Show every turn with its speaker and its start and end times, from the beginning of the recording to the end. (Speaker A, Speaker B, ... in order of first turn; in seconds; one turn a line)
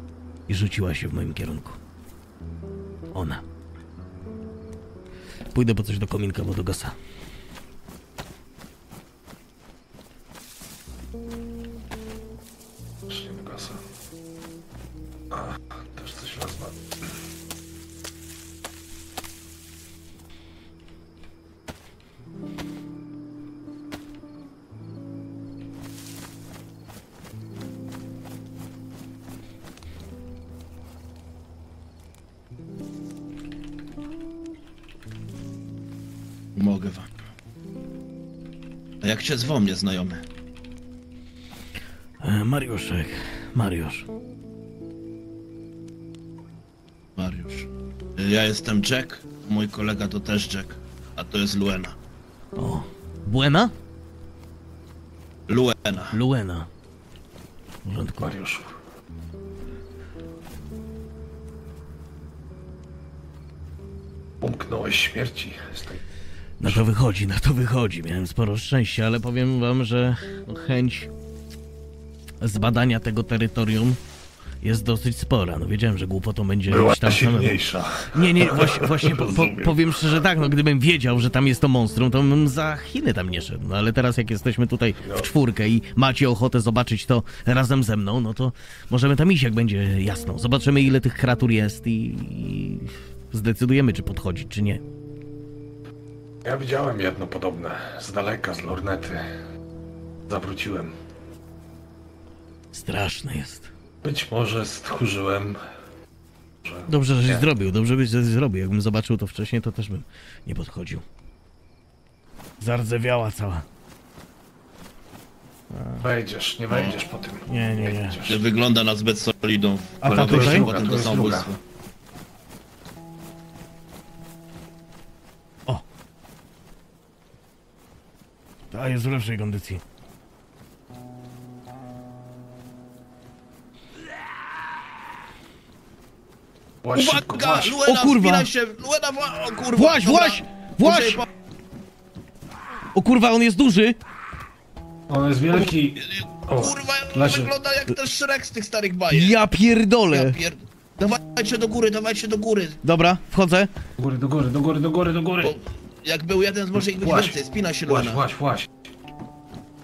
Speaker A: 0.5-1.8
Speaker A: 3.1-3.4
Speaker A: 5.5-7.0
Speaker B: 13.1-13.8
Speaker B: 15.3-16.8
Speaker C: 36.5-37.1
Speaker C: 39.0-40.2
Speaker A: 42.2-44.1
Speaker C: 47.2-52.0
Speaker A: 52.6-53.7
Speaker C: 55.5-56.2
Speaker A: 56.1-56.7
Speaker A: 57.9-58.4
Speaker B: 58.1-58.8
Speaker B: 64.4-66.0
Speaker A: 66.6-71.1
Speaker A: 72.4-74.0
Speaker A: 74.6-77.6
Speaker B: 76.7-80.2
Speaker A: 78.1-94.8
Speaker B: 85.0-85.3
Speaker B: 96.4-99.3
Speaker B: 100.3-100.9
Speaker A: 102.7-103.7
Speaker B: 104.0-105.6
Speaker B: 106.6-107.4
Speaker A: 106.9-111.0
Speaker A: 112.6-113.7
Speaker A: 115.7-116.1
Speaker B: 116.0-118.5
Speaker C: 116.7-117.0
Speaker A: 117.5-118.2
Speaker C: 118.2-121.6
Speaker A: 120.0-120.7
Speaker B: 120.0-121.5
Speaker A: 128.7-129.8
Speaker B: 136.8-137.8
Speaker C: 136.9-141.2
Speaker A: 137.8-138.5
Speaker A: 139.7-141.2
Speaker A: 142.9-144.0
Speaker B: 145.1-147.5
Speaker C: 145.5-149.4
Speaker A: 149.1-150.4
Speaker C: 150.1-152.8
Speaker A: 152.8-153.7
Speaker B: 154.0-155.6
Speaker C: 155.4-158.2
Speaker B: 156.8-158.8